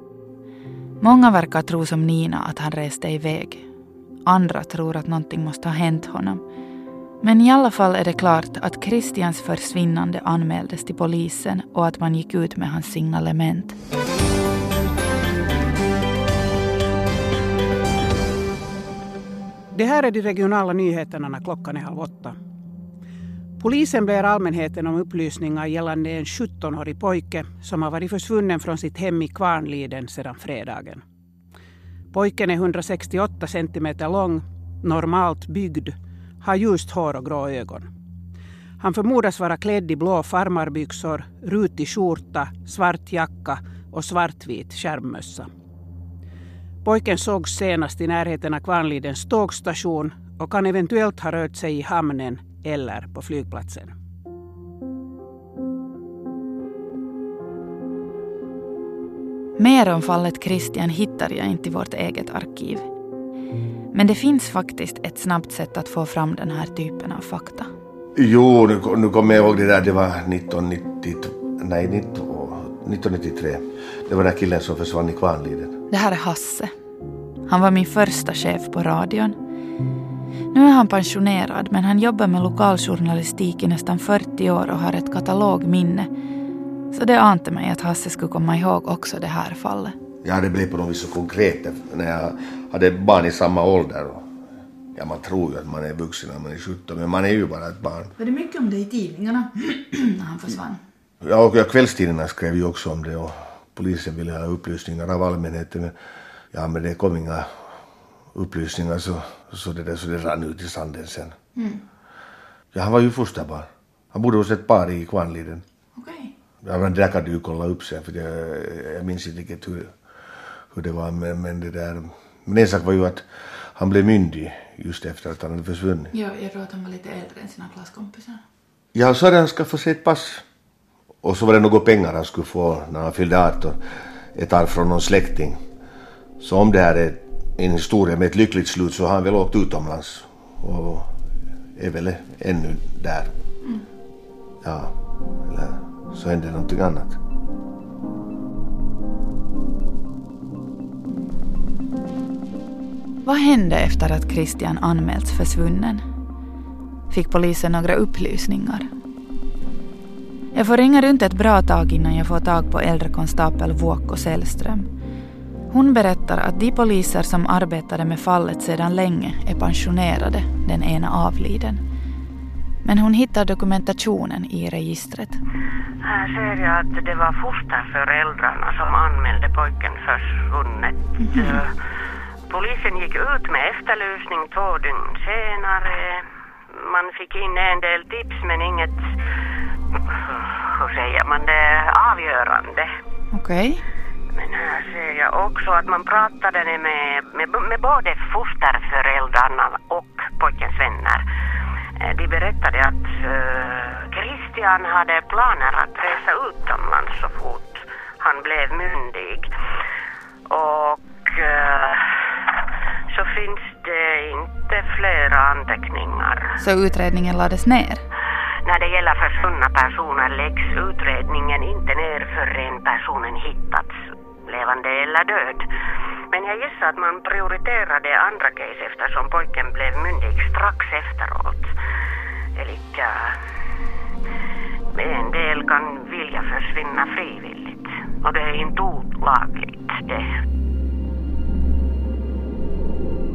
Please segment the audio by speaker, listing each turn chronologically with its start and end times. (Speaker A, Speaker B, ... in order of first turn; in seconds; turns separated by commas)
Speaker A: 1.0-3.6, Speaker A: 4.2-6.4, Speaker A: 7.2-13.8, Speaker B: 19.7-22.4, Speaker B: 23.6-31.0, Speaker B: 32.1-37.9, Speaker B: 38.8-45.5, Speaker B: 46.8-53.9, Speaker A: 59.6-62.9, Speaker A: 63.9-67.7, Speaker C: 68.2-75.7, Speaker A: 75.9-76.7, Speaker A: 77.5-79.3, Speaker A: 80.5-86.1, Speaker A: 86.9-89.9, Speaker C: 90.2-94.2, Speaker C: 94.9-98.1, Speaker A: 98.2-100.8, Speaker C: 101.2-105.9, Speaker C: 106.5-107.5, Speaker C: 108.3-111.3, Speaker A: 111.5-111.8, Speaker C: 112.7-115.6, Speaker A: 116.0-116.3, Speaker C: 116.6-119.9, Speaker C: 120.7-123.2, Speaker C: 123.8-126.1, Speaker A: 126.1-128.4, Speaker C: 128.9-130.4, Speaker C: 131.2-133.8, Speaker C: 134.3-135.6, Speaker C: 136.4-141.1, Speaker C: 141.8-143.3, Speaker C: 144.6-144.9, Speaker C: 145.4-147.2, Speaker A: 153.2-156.0, Speaker A: 157.1-158.9, Speaker A: 160.5-164.9, Speaker A: 165.7-171.8, Speaker A: 172.8-175.4, Speaker D: 176.0-181.7, Speaker A: 181.2-181.6, Speaker D: 182.5-189.1, Speaker D: 190.1-192.9, Speaker A: 193.3-193.8, Speaker D: 194.3-201.2, Speaker D: 202.0-209.5, Speaker D: 210.5-212.1, Speaker D: 213.1-216.5, Speaker A: 216.6-218.0, Speaker D: 218.6-225.7, Speaker D: 226.3-231.7, Speaker D: 232.6-233.3, Speaker D: 234.9-240.3